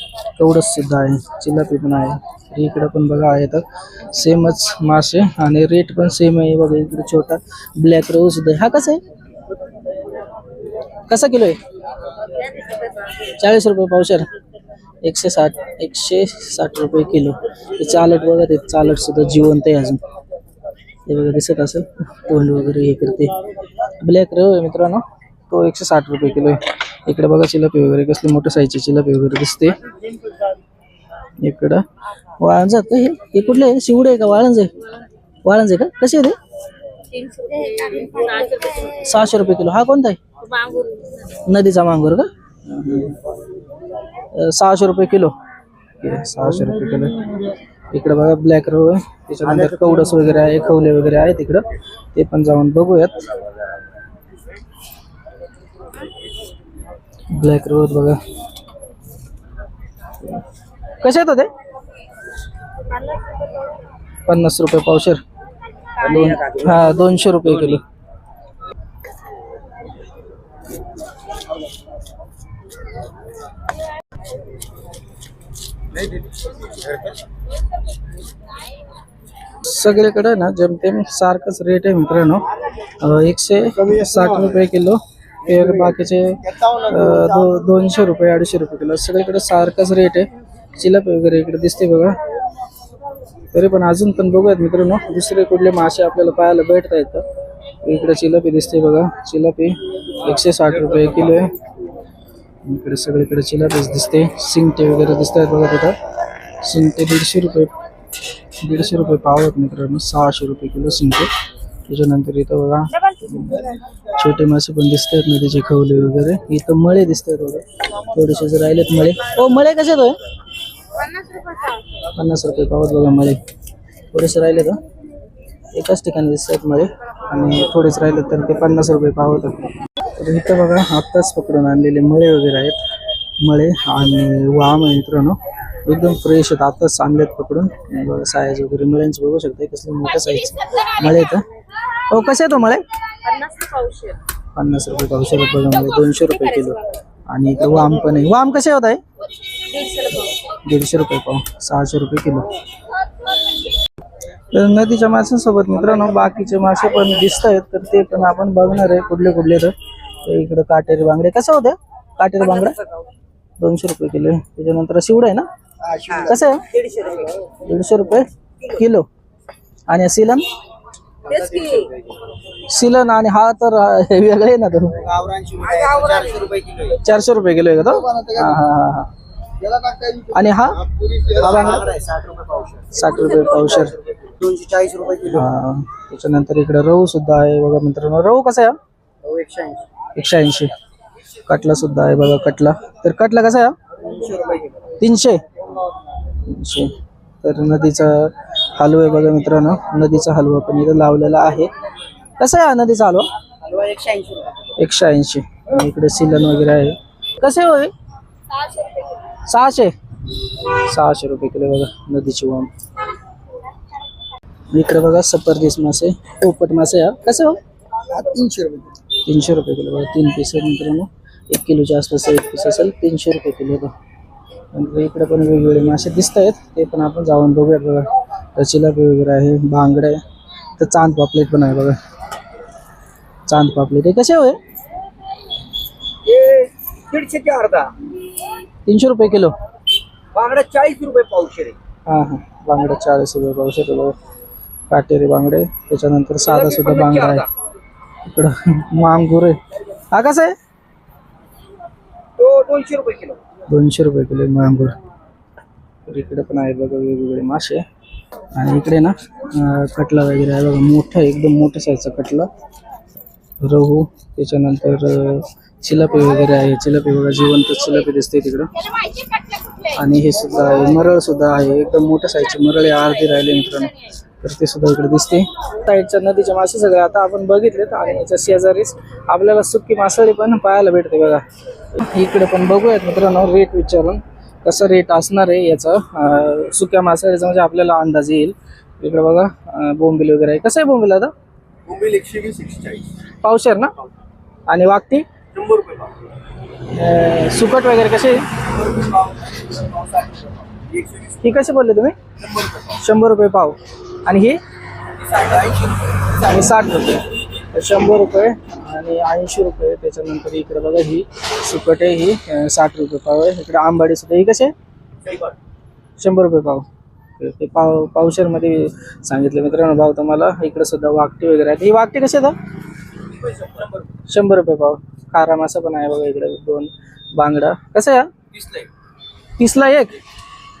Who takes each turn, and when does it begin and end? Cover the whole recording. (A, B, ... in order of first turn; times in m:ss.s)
0:00.4-0:09.0 A
0:11.1-0:11.6 A
0:13.2-0:14.3 A
0:15.0-0:20.0 A
0:21.1-0:23.3 A
0:24.0-0:29.8 A
0:31.4-0:31.8 A
0:32.4-0:36.4 A
0:37.1-0:39.0 B
0:38.8-0:40.2 A
0:40.4-0:41.3 B
0:41.3-0:43.2 A
0:44.3-0:45.3 A
0:46.0-0:47.4 A
0:47.9-0:53.3 A
0:57.3-0:58.2 A
1:01.0-1:01.5 A
1:03.0-1:03.4 B
1:04.3-1:05.2 A
1:06.0-1:07.8 A
1:06.2-1:06.8 C
1:16.8-1:17.0 C
1:19.6-1:22.5 A
1:23.0-1:32.2 A
1:33.5-1:37.2 A
1:37.8-1:41.6 A
1:42.6-1:46.0 A
1:46.6-1:47.7 A
1:48.6-1:51.3 A
1:51.9-2:00.2 A
2:01.0-2:01.8 B
2:02.1-2:03.4 A
2:04.1-2:04.8 A
2:05.7-2:12.8 A
2:13.4-2:21.4 A
2:22.1-2:22.8 A
2:23.2-2:24.2 B
2:24.5-2:29.0 A
2:29.6-2:30.3 B
2:30.4-2:32.5 A
2:34.5-2:42.8 A
2:43.6-2:45.5 A
2:45.9-2:47.4 C
2:46.1-2:46.7 A
2:47.6-2:49.0 A
2:49.9-2:50.4 A
2:51.2-2:52.1 C
2:51.4-2:51.9 B
2:52.6-2:55.1 A
2:55.1-2:57.0 C
2:56.9-2:59.1 A
3:00.3-3:00.9 A
3:01.1-3:03.0 C
3:02.9-3:04.0 A
3:03.9-3:05.4 C
3:05.2-3:08.8 A
3:09.2-3:09.8 C
3:10.2-3:10.7 A
3:11.4-3:13.7 A
3:14.0-3:14.8 C
3:15.0-3:15.4 A
3:16.4-3:21.7 A
3:22.4-3:23.2 A
3:23.6-3:24.5 C
3:24.8-3:27.9 A
3:29.4-3:29.9 A
3:30.5-3:32.7 A
3:34.7-3:37.6 A
3:38.1-3:38.8 C
3:38.3-3:43.9 A
3:44.7-3:50.2 A
3:50.8-3:52.0 A
3:53.5-3:54.6 A
3:56.2-3:57.9 C
3:58.8-3:59.5 A
4:00.3-4:01.8 C
4:02.1-4:04.1 A
4:04.9-4:07.5 A
4:06.6-4:07.4 C
4:08.2-4:09.6 A
4:10.1-4:10.5 A
4:12.4-4:13.4 C
4:13.7-4:14.9 A
4:16.0-4:17.8 A
4:18.5-4:22.5 A
4:23.6-4:28.8 A
4:29.8-4:51.3 A
4:51.8-4:53.1 C
4:53.4-4:54.0 A
4:54.7-4:55.2 A
4:55.5-4:56.1 C
4:56.8-4:58.7 A
4:58.9-5:01.2 C
5:01.3-5:02.2 A
5:02.7-5:04.6 A
5:05.3-5:14.7 A
5:05.4-5:05.6 C
5:16.2-5:16.8 A
5:17.4-5:22.5 A
5:23.7-5:28.8 A
5:29.6-5:30.2 A